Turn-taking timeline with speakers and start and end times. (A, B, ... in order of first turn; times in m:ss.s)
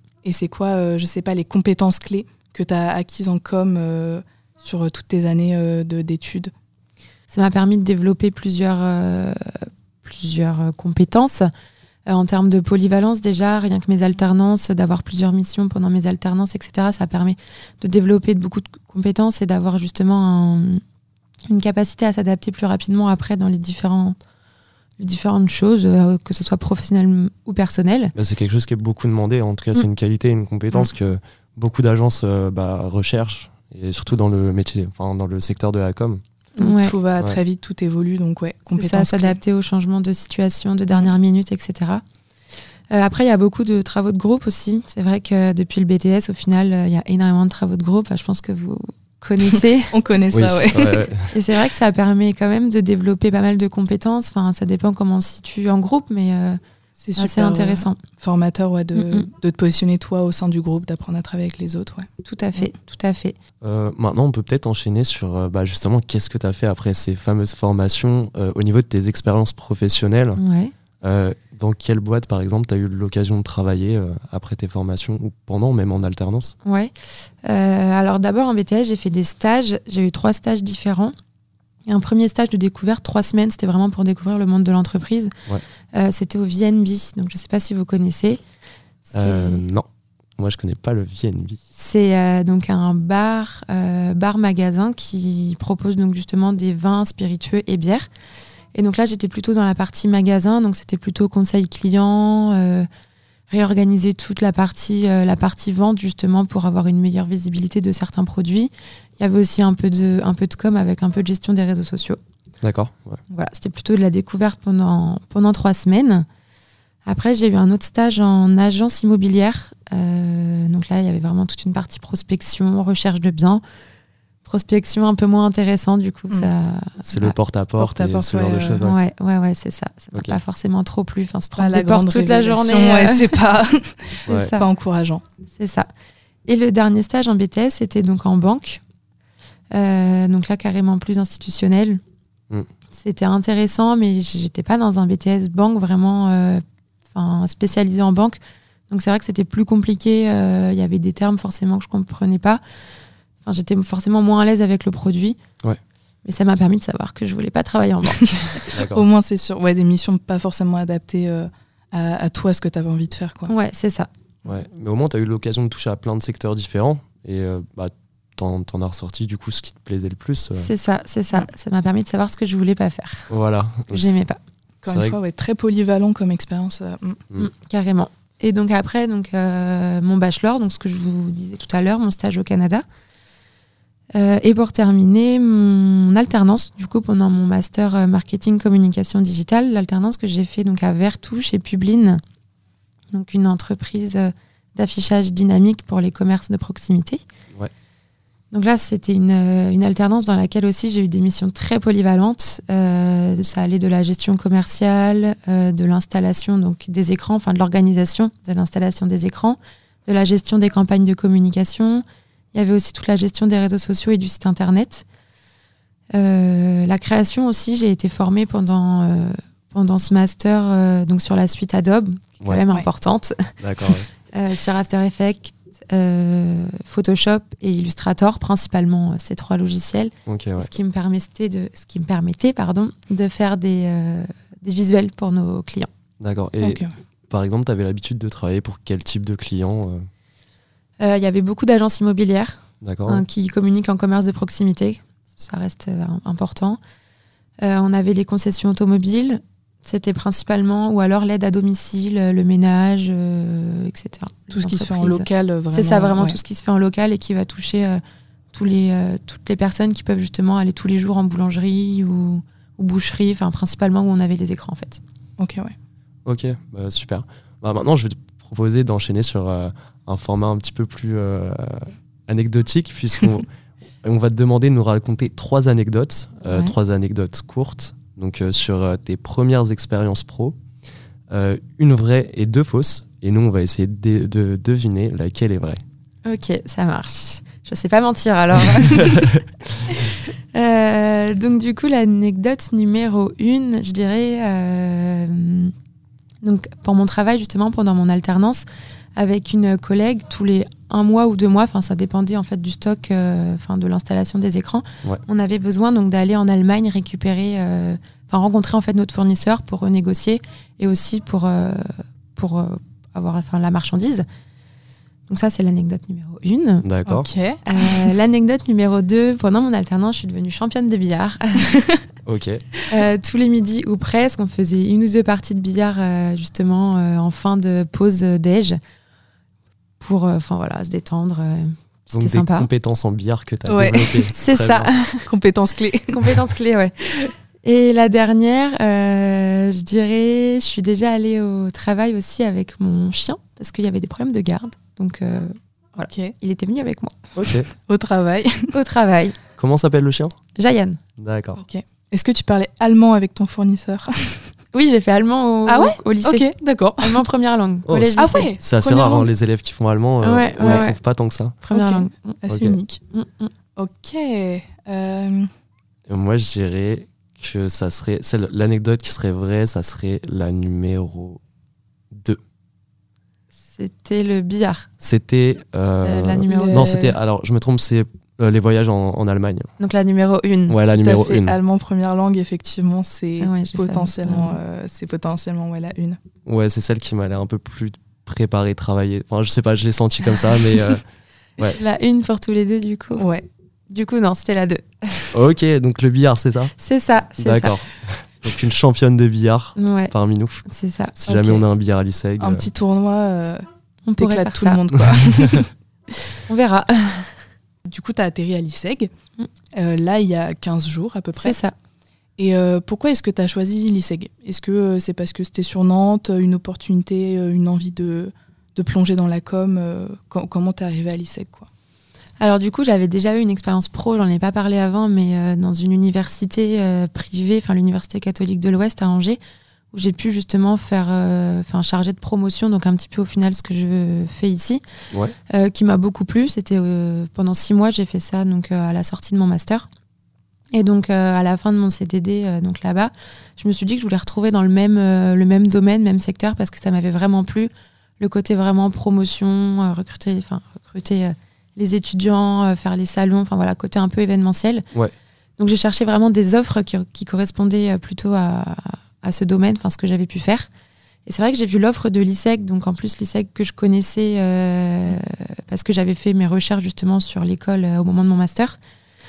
0:00.2-0:06.5 A
0:07.3-0:11.5 B
0:12.0-0:20.8 B
0:21.5-0:24.2 B
0:25.0-0:28.1 B
0:28.2-0:36.2 C
0:36.6-0:39.4 A
0:36.6-0:37.0 B
0:38.7-0:42.0 B
0:42.9-0:49.9 B
0:49.9-0:51.1 A
0:50.3-0:51.3 C
0:51.3-0:56.6 B
0:57.0-1:02.7 A
0:57.2-0:58.0 B
0:59.0-0:59.3 B
1:02.2-1:03.4 B
1:03.6-1:10.4 C
1:10.4-1:10.7 B
1:11.0-1:16.5 C
1:16.6-1:16.9 B
1:17.4-1:21.1 B
1:21.9-1:25.3 B
1:25.9-1:28.4 B
1:29.0-1:29.6 B
1:29.1-1:29.8 C
1:30.4-1:31.6 C
1:31.7-1:38.1 B
1:38.7-1:42.9 B
1:43.5-1:52.2 B
1:52.6-1:53.2 C
1:53.3-1:56.2 B
1:57.0-2:03.6 B
2:04.4-2:07.4 B
2:07.0-2:09.0 C
2:07.8-2:08.8 A
2:08.8-2:13.4 B
2:10.1-2:10.4 C
2:11.6-2:15.2 A
2:14.2-2:14.5 C
2:14.2-2:14.6 B
2:15.5-2:15.9 B
2:16.4-2:18.8 B
2:19.7-2:22.0 B
2:22.9-2:32.6 B
2:33.4-2:35.4 B
2:36.2-2:38.7 B
2:38.7-2:39.0 C
2:38.8-2:43.5 A
2:43.5-2:44.1 B
2:44.4-2:50.7 C
2:50.5-2:53.3 B
2:53.3-2:54.1 C
2:53.8-2:54.4 B
2:54.8-2:57.2 A
2:54.9-2:55.2 C
2:57.3-3:02.8 B
3:04.1-3:12.2 B
3:13.1-3:17.2 B
3:18.5-3:35.0 B
3:36.1-3:55.9 B
3:43.6-3:44.0 C
3:50.3-3:50.7 C
3:56.2-4:00.0 C
3:56.6-3:56.9 A
4:01.0-4:06.8 B
4:02.8-4:03.2 C
4:07.6-4:18.0 B
4:14.5-4:16.4 A
4:18.5-4:25.0 B
4:25.4-4:25.7 A
4:26.2-4:33.5 C
4:34.0-4:40.6 C
4:36.4-4:36.7 B
4:41.3-4:45.8 C
4:46.2-4:49.3 B
4:49.8-4:55.7 B
4:56.4-4:58.6 B
4:59.2-5:14.2 B
5:15.3-5:16.9 B
5:16.8-5:17.3 C
5:17.0-5:18.1 A
5:17.6-5:21.9 B
5:22.2-5:22.6 C
5:22.9-5:28.8 B
5:30.0-5:32.7 B
5:32.1-5:34.9 C
5:33.7-5:34.3 A
5:34.3-5:35.2 B
5:35.2-5:36.3 A
5:36.1-5:47.3 B
5:46.0-5:46.3 A
5:47.4-5:47.7 C
5:47.8-5:48.7 A
5:48.7-5:49.4 B
5:49.6-5:50.3 C
5:50.5-5:51.0 B
5:51.2-5:51.6 C
5:51.6-5:54.5 A
5:54.7-5:58.5 B
5:55.6-5:57.2 A
5:57.9-6:01.6 C
5:58.1-5:59.3 A
6:00.2-6:01.0 B
6:00.6-6:00.8 A
6:01.6-6:02.4 B
6:01.7-6:03.0 A
6:02.5-6:02.8 C
6:03.1-6:03.5 B
6:03.8-6:05.5 A
6:06.1-6:11.4 C
6:12.1-6:12.4 C
6:13.6-6:14.9 B
6:15.0-6:19.7 C
6:16.0-6:17.2 B
6:16.4-6:16.9 A
6:19.8-6:20.8 B
6:20.7-6:21.6 C
6:20.9-6:26.2 A
6:23.4-6:24.6 B
6:26.4-6:31.0 C
6:31.6-6:33.2 B
6:33.2-6:33.4 A
6:33.9-6:35.3 B
6:35.3-6:36.7 C
6:36.8-6:37.8 B
6:37.4-6:40.6 C
6:39.8-6:40.1 B
6:40.6-6:41.2 B
6:41.2-6:42.7 C
6:41.2-6:41.6 A
6:42.4-6:43.6 A
6:44.0-6:44.8 B
6:44.2-6:45.7 A
6:46.4-6:47.4 B
6:47.8-6:49.1 A
6:49.7-6:51.6 A
6:51.4-6:51.7 B
6:52.4-7:01.7 A
7:02.4-7:09.4 B
7:09.9-7:14.8 B
7:15.5-7:19.8 B
7:20.7-7:34.8 B
7:35.6-7:40.7 B
7:41.2-7:48.8 B